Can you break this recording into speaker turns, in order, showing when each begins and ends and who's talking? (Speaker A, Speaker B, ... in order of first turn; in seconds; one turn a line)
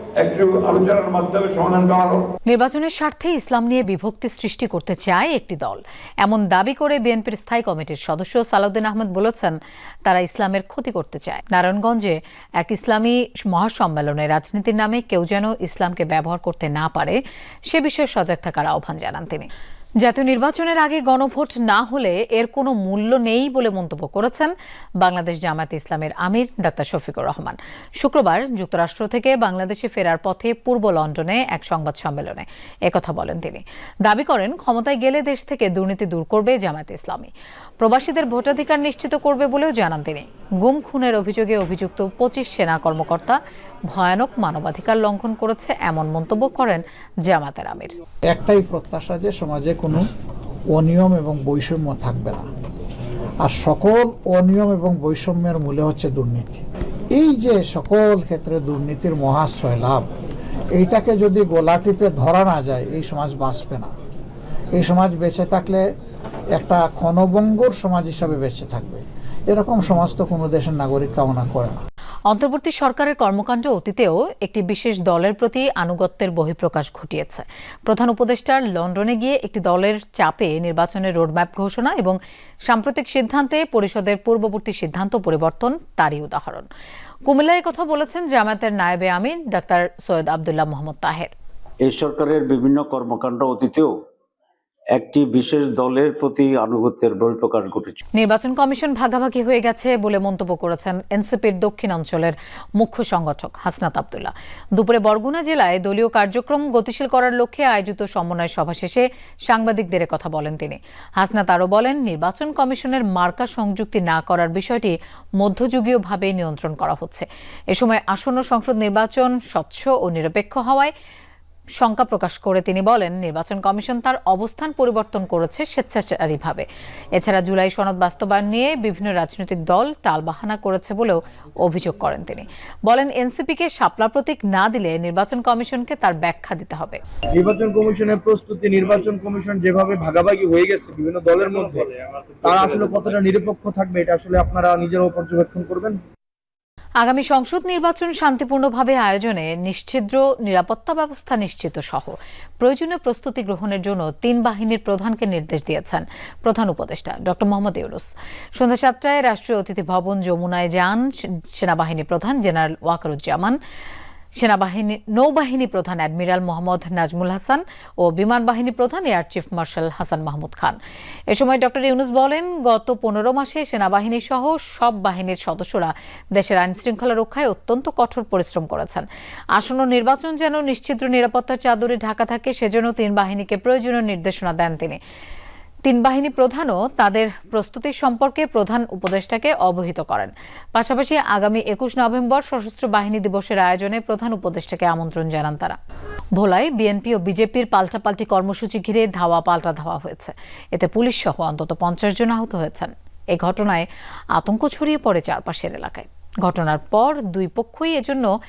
Speaker A: 0.2-2.3
Speaker B: 2.5-17.2
Speaker B: 17.7-19.5
Speaker B: 20.0-37.3
Speaker B: 37.8-43.4
Speaker B: 43.9-47.9
Speaker C: 48.3-50.1
Speaker C: 50.7-52.5
Speaker C: 53.4-56.6
Speaker C: 57.1-60.1
Speaker C: 60.8-63.9
Speaker C: 64.8-65.8
Speaker C: 66.5-71.8
Speaker B: 72.3-82.2
Speaker B: 82.7-86.7
Speaker B: 87.3-91.3
Speaker D: 91.8-94.0
Speaker D: 94.9-98.0
Speaker B: 98.2-120.9
Speaker B: 121.8-126.7
Speaker B: 127.2-137.0
Speaker E: 137.4-146.0
Speaker B: 147.0-163.6
Speaker B: 164.4-170.8
Speaker B: 171.3-185.0
Speaker B: 185.9-195.8
Speaker B: 196.4-208.3